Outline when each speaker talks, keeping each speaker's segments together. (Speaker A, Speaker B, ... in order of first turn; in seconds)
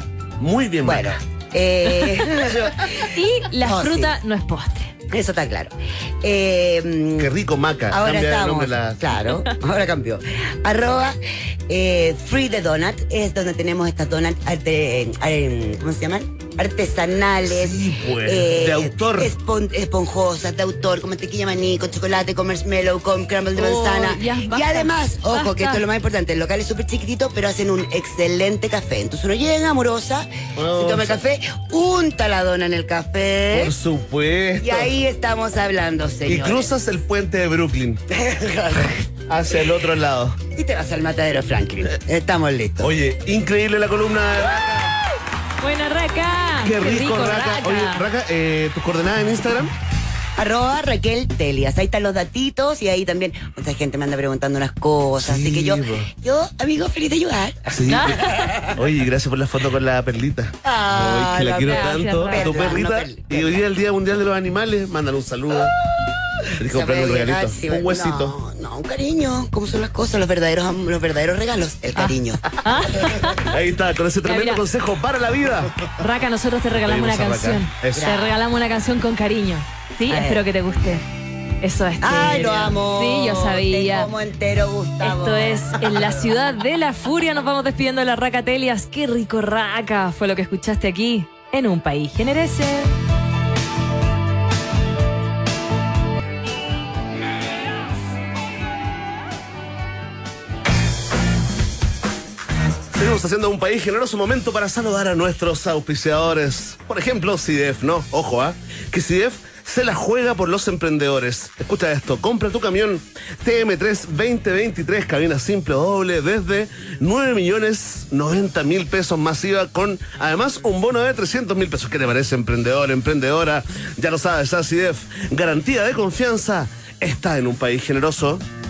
Speaker A: 0.4-1.1, 7.2-9.0, 17.4-19.3, 30.6-31.2, 33.5-34.9, 36.3-38.0, 39.3-40.4, 42.8-44.9, 46.6-49.7, 55.2-56.1, 57.7-65.7, 66.6-68.3, 73.3-75.9, 76.7-78.2, 102.9-128.4
Speaker B: 0.8-4.1, 5.1-7.3, 7.9-33.7, 34.6-36.7, 38.1-39.0, 40.5-42.9, 50.4-58.7, 60.6-63.6, 66.7-73.0, 78.0-78.4, 80.1-80.4, 82.0-85.9
Speaker C: 1.9-2.3, 2.9-4.9, 23.5-25.8, 45.6-48.0, 57.9-58.5, 61.6-62.8, 71.9-73.6, 74.2-74.6, 76.0-81.0, 81.6-84.1, 85.0-92.9